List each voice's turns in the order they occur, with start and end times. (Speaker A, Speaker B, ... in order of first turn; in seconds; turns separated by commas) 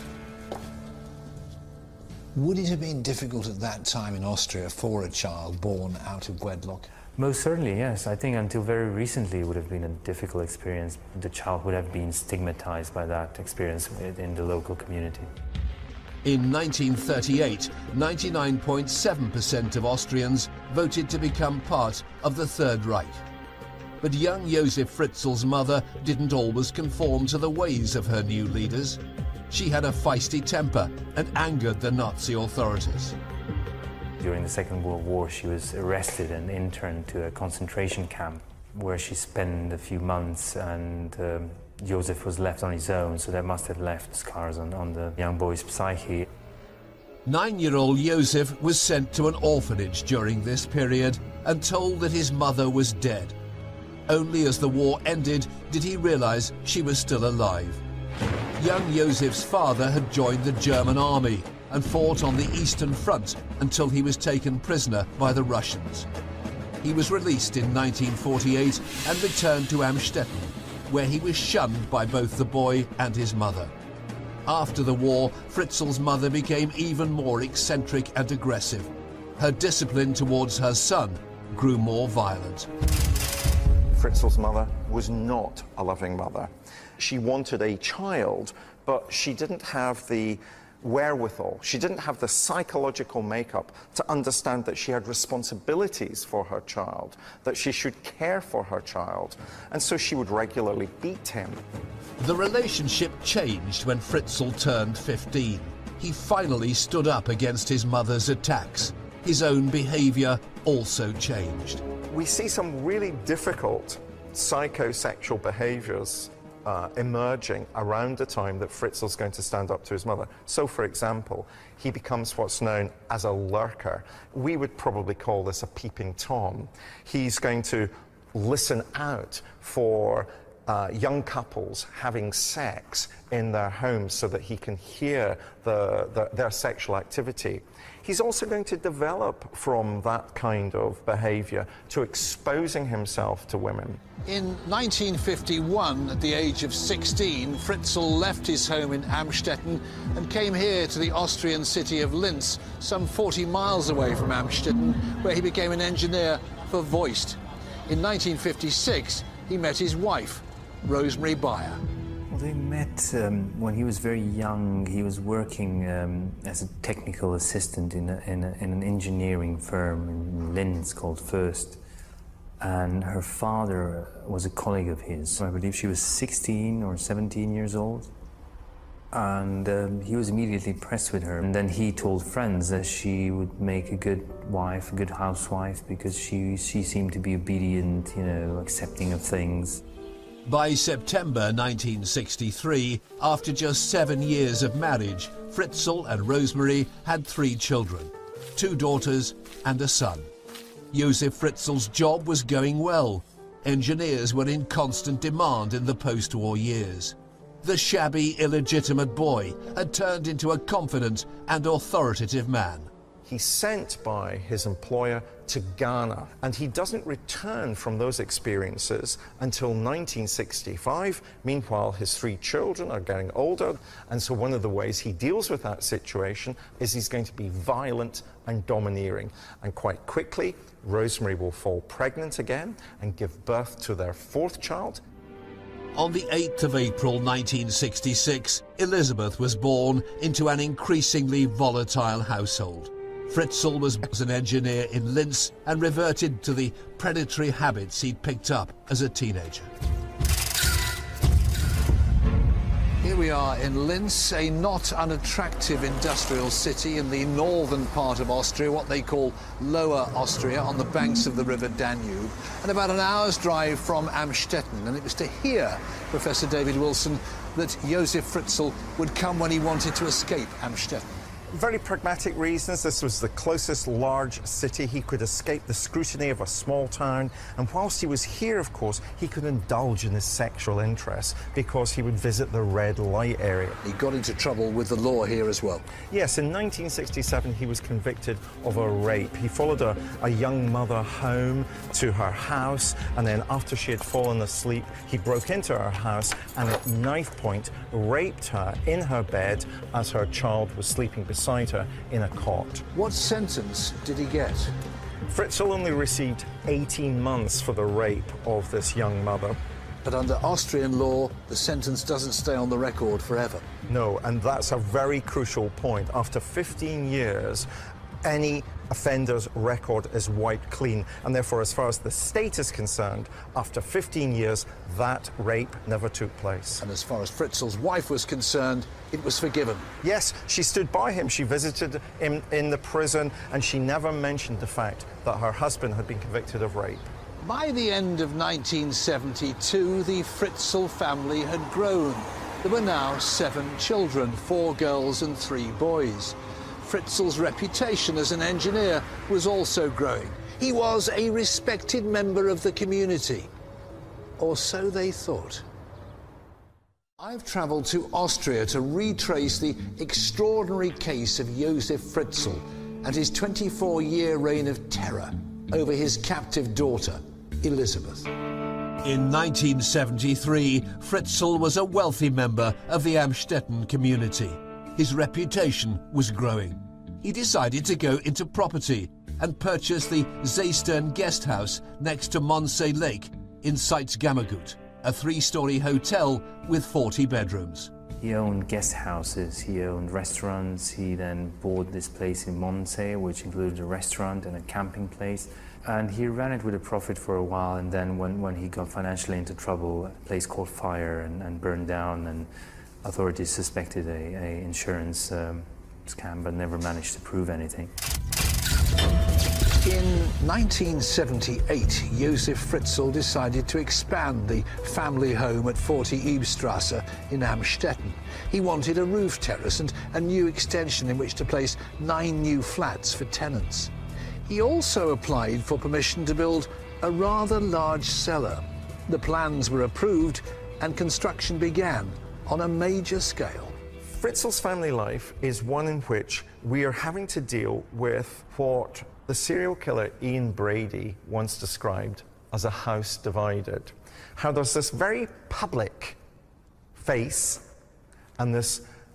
Speaker A: 2.4-6.9, Speaker B: 7.2-15.3, Speaker C: 16.2-23.2, Speaker C: 24.0-33.2, Speaker B: 34.2-46.3, Speaker C: 47.3-53.4, Speaker C: 54.1-57.8, Speaker C: 58.6-66.1, Speaker C: 66.8-73.7, Speaker C: 74.5-82.7, Speaker D: 83.9-101.6, Speaker C: 102.2-111.8, Speaker D: 112.1-144.0, Speaker A: 144.2-161.8, Speaker B: 162.3-171.8, Speaker B: 172.6-178.1, Speaker B: 179.1-189.8, Speaker C: 190.4-200.3, Speaker C: 200.9-212.9, Speaker D: 213.3-235.0, Speaker C: 235.9-249.7, Speaker A: 253.0-271.1, Speaker D: 271.5-283.8, Speaker A: 283.8-285.9, Speaker D: 286.1-302.9, Speaker A: 302.9-304.8, Speaker D: 305.3-309.6, Speaker A: 310.0-313.7, Speaker D: 313.9-317.7, Speaker D: 318.2-326.8, Speaker A: 326.8-329.9, Speaker D: 330.0-337.1, Speaker A: 337.4-353.5, Speaker A: 354.4-355.6, Speaker A: 357.2-368.3, Speaker C: 369.0-387.9, Speaker B: 388.2-402.5, Speaker B: 403.0-407.9, Speaker A: 409.8-423.9, Speaker A: 424.5-433.8, Speaker D: 434.1-446.2, Speaker D: 447.0-447.7, Speaker D: 448.4-448.9